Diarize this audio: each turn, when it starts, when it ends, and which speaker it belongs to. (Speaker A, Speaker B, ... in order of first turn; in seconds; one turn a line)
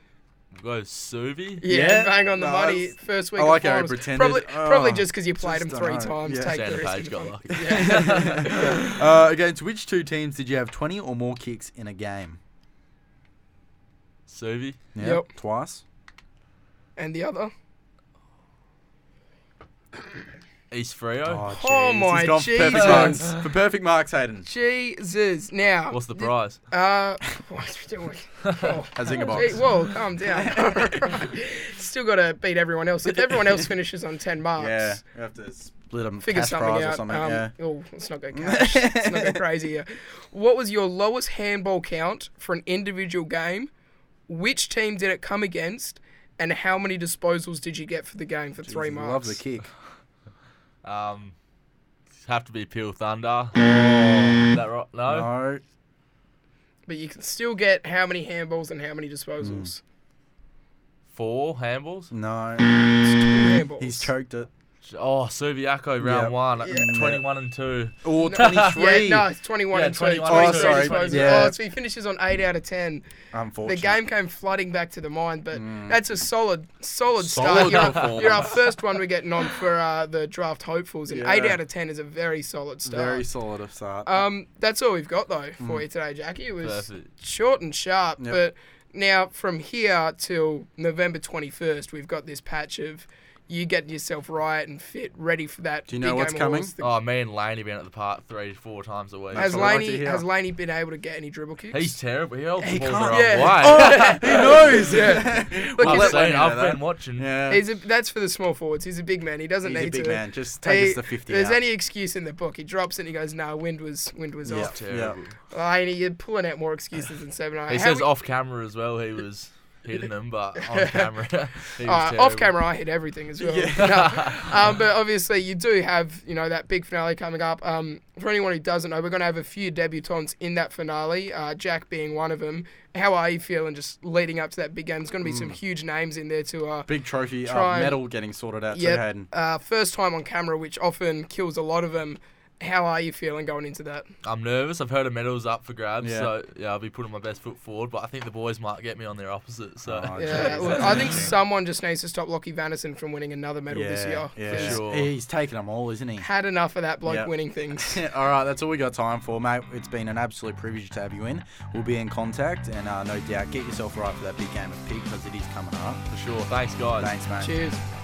Speaker A: 0.6-1.6
Speaker B: 1.6-8.9
Speaker C: 1.6-6.9
Speaker A: 6.5-8.5
Speaker C: 7.5-12.4
Speaker A: 14.3-14.8
Speaker C: 14.9-15.8
Speaker B: 15.0-15.2
Speaker B: 17.0-17.5
Speaker A: 20.7-21.4
Speaker C: 21.2-24.5
Speaker B: 21.5-23.3
Speaker A: 22.8-23.1
Speaker B: 24.4-35.0
Speaker A: 25.9-26.6
Speaker C: 28.9-31.1
Speaker C: 33.1-33.7
Speaker C: 34.6-37.5
Speaker B: 36.2-43.7
Speaker C: 38.3-39.4
Speaker B: 44.3-49.4
Speaker C: 48.7-49.7
Speaker A: 50.8-51.3
Speaker A: 52.2-53.6
Speaker C: 53.5-54.5
Speaker A: 54.4-55.3
Speaker C: 55.1-55.6
Speaker B: 56.9-59.8
Speaker C: 59.4-59.7
Speaker A: 61.1-62.1
Speaker C: 62.1-62.7
Speaker B: 62.9-64.1
Speaker C: 63.3-64.5
Speaker A: 64.8-68.8
Speaker C: 66.0-67.2
Speaker B: 66.6-67.0
Speaker C: 68.0-69.2
Speaker B: 68.2-73.0
Speaker A: 69.7-71.5
Speaker C: 70.2-71.5
Speaker C: 73.3-74.0
Speaker B: 73.6-83.2
Speaker C: 75.5-76.0
Speaker C: 77.2-78.6
Speaker A: 77.4-78.4
Speaker C: 81.1-81.6
Speaker C: 82.8-84.2
Speaker B: 84.0-97.0
Speaker A: 86.6-87.1
Speaker C: 95.9-96.7
Speaker A: 96.8-99.7
Speaker C: 99.3-100.2
Speaker B: 99.3-102.0
Speaker A: 101.7-104.8
Speaker C: 102.7-107.6
Speaker B: 102.7-106.3
Speaker A: 105.8-107.3
Speaker B: 107.5-114.8
Speaker C: 109.6-111.6
Speaker C: 114.4-115.2
Speaker A: 114.5-115.4
Speaker B: 115.5-118.1
Speaker A: 117.7-122.5
Speaker B: 120.6-121.0
Speaker B: 121.8-136.9
Speaker C: 123.4-124.0
Speaker A: 123.7-124.4
Speaker C: 135.2-135.6
Speaker C: 136.9-139.3
Speaker B: 137.4-138.0
Speaker B: 138.7-144.0
Speaker A: 144.2-151.3
Speaker C: 146.0-146.3
Speaker C: 149.8-151.3
Speaker B: 150.2-154.8
Speaker C: 153.7-156.3
Speaker A: 154.4-155.1
Speaker B: 156.2-158.0
Speaker C: 157.1-166.0
Speaker A: 166.1-167.1
Speaker C: 167.0-167.5
Speaker B: 167.4-167.8